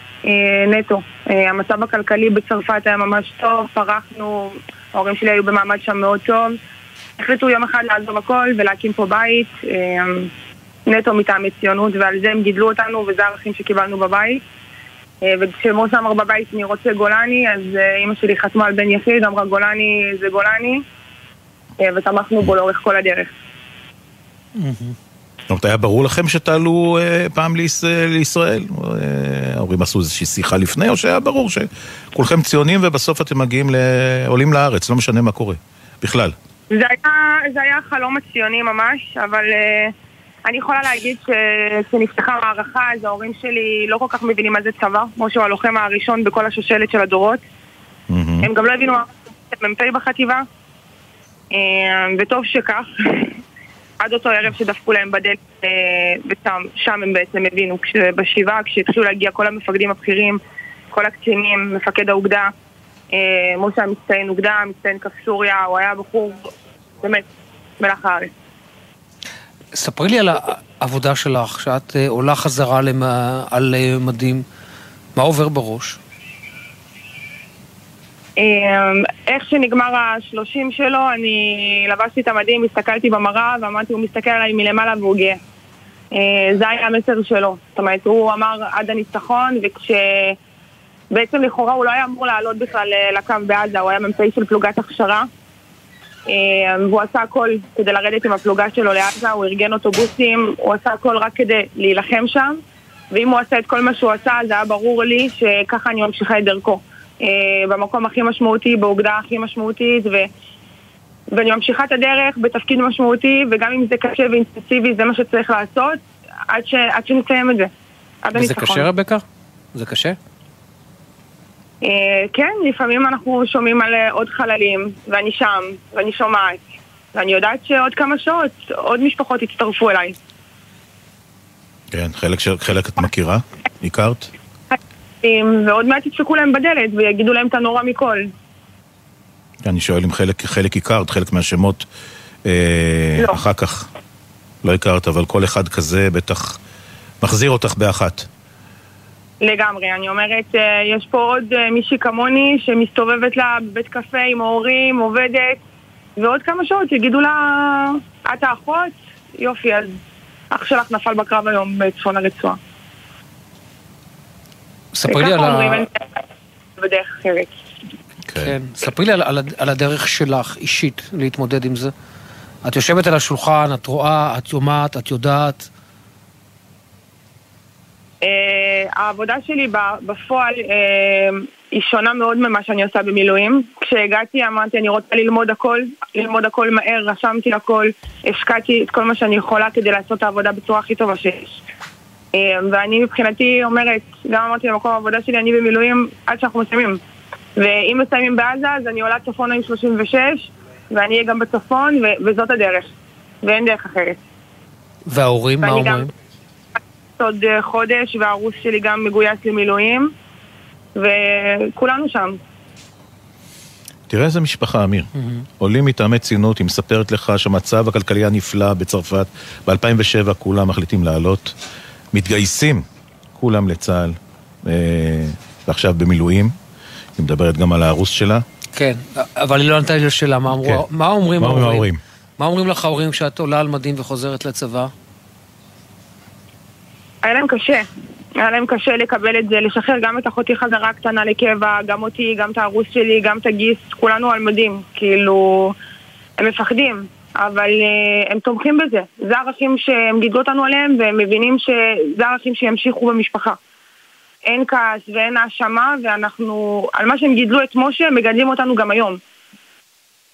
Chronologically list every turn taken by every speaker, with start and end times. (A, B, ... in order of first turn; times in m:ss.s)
0:00.2-0:06.6 A
0:07.2-0:10.3 A
0:10.9-0:14.4 A
0:15.2-0:20.8 A
0:21.8-0:23.3 A
0:24.6-0:25.0 B
0:25.5-0:36.4 C
0:36.7-0:39.9 A
0:40.5-0:47.4 A
0:48.1-0:48.5 C
0:48.4-0:50.4 A
0:51.5-0:53.3 A
0:54.0-1:00.4 A
1:00.9-1:02.5 A
1:03.1-1:06.5 A
1:07.8-1:08.3 A
1:09.7-1:14.4 B
1:15.2-1:16.0 B
1:18.4-1:25.4 A
1:26.1-1:30.4 A
1:31.1-1:35.3 A
1:36.3-1:42.6 A
1:43.1-1:50.3 A
1:51.3-1:57.7 A
1:58.2-1:58.9 A
1:58.4-1:59.2 B
1:59.8-2:00.2 B
2:01.8-2:06.6 A
2:07.2-2:10.2 A
2:11.9-2:14.3 C
2:15.2-2:18.3 A
2:19.6-2:21.8 C
2:22.5-2:23.9 C
2:24.6-2:26.6 C
2:27.2-2:28.3 C
2:29.4-2:35.6 A
2:36.2-2:40.0 A
2:40.5-2:42.6 A
2:45.0-2:45.8 B
2:45.1-2:46.0 A
2:46.8-2:47.5 A
2:48.3-2:48.5 C
2:48.4-2:51.9 B
2:52.6-2:55.7 B
2:58.2-3:11.6 A
3:12.3-3:17.0 A
3:17.6-3:22.9 A
3:23.4-3:24.2 A
3:25.1-3:26.1 B
3:25.6-3:26.1 A
3:27.2-3:30.1 A
3:31.0-3:32.4 A
3:34.1-3:35.1 C
3:35.2-3:35.4 B
3:35.6-3:41.6 C
3:42.1-3:42.8 C
3:43.4-3:46.6 C
3:47.2-3:48.4 C
3:48.8-3:51.9 B
3:50.6-3:52.0 C
3:52.4-3:54.9 B
3:57.2-3:57.9 A
3:58.4-4:05.8 A
4:06.4-4:13.6 A
4:14.5-4:19.2 A